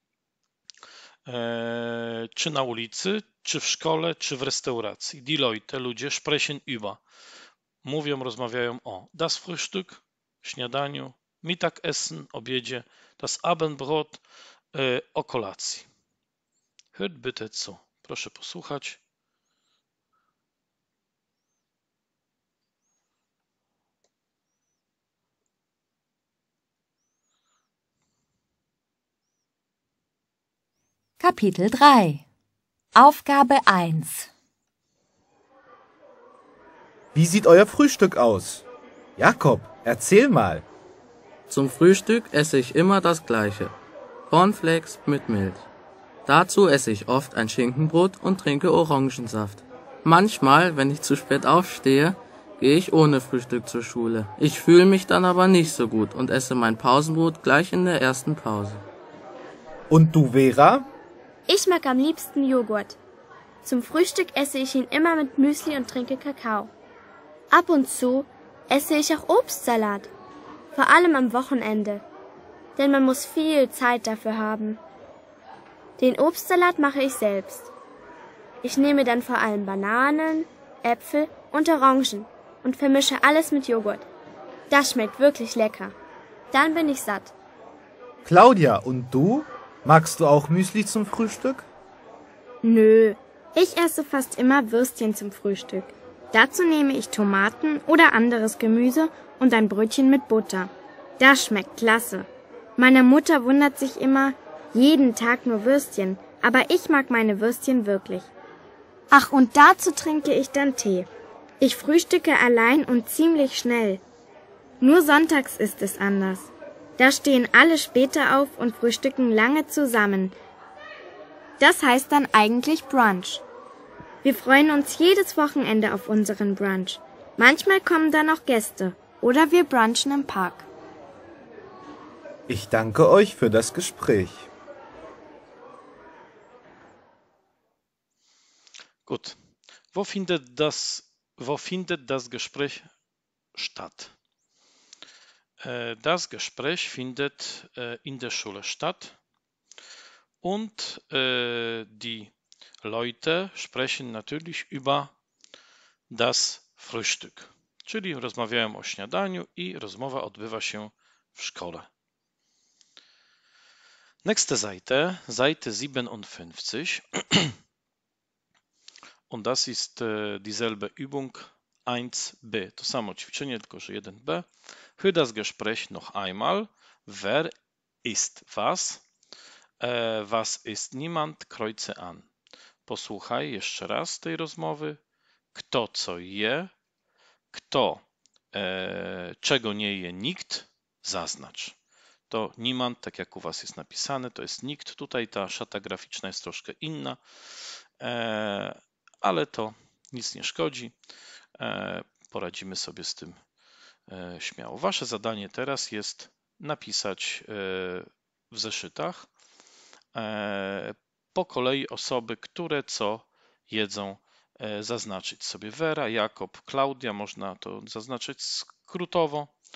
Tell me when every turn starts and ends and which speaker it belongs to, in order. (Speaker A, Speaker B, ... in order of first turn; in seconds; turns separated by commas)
Speaker A: 1.2-7.0, Speaker A: 7.8-14.2, Speaker A: 14.7-15.9, Speaker A: 16.9-19.0, Speaker B: 31.2-32.2, Speaker B: 32.9-34.3, Speaker C: 37.1-38.6, Speaker C: 39.2-40.6, Speaker D: 41.5-43.8, Speaker D: 44.3-45.7, Speaker D: 46.2-58.8, Speaker C: 59.9-60.9, Speaker E: 61.5-63.0, Speaker E: 63.6-66.7, Speaker E: 67.5-70.1, Speaker E: 70.7-72.0, Speaker E: 72.8-74.8, Speaker E: 76.0-77.7, Speaker E: 78.6-84.1, Speaker E: 84.7-86.0, Speaker E: 86.5-87.3, Speaker C: 88.2-91.7, Speaker F: 92.6-108.3, Speaker F: 109.1-111.1, Speaker F: 111.6-114.0, Speaker F: 114.8-120.3, Speaker F: 121.6-123.4, Speaker F: 124.2-130.7, Speaker C: 132.5-134.5, Speaker A: 139.0-139.4, Speaker A: 139.9-142.9, Speaker A: 143.5-144.2, Speaker A: 145.6-149.2, Speaker A: 150.4-152.3, Speaker A: 152.8-155.1, Speaker A: 156.1-161.9, Speaker A: 164.2-167.6, Speaker A: 169.3-177.5, Speaker A: 178.0-179.0, Speaker A: 179.8-182.3, Speaker A: 182.9-185.0, Speaker A: 185.5-186.7, Speaker A: 187.5-191.8, Speaker A: 192.3-200.9, Speaker A: 201.6-203.4, Speaker A: 204.1-209.3, Speaker A: 210.2-219.5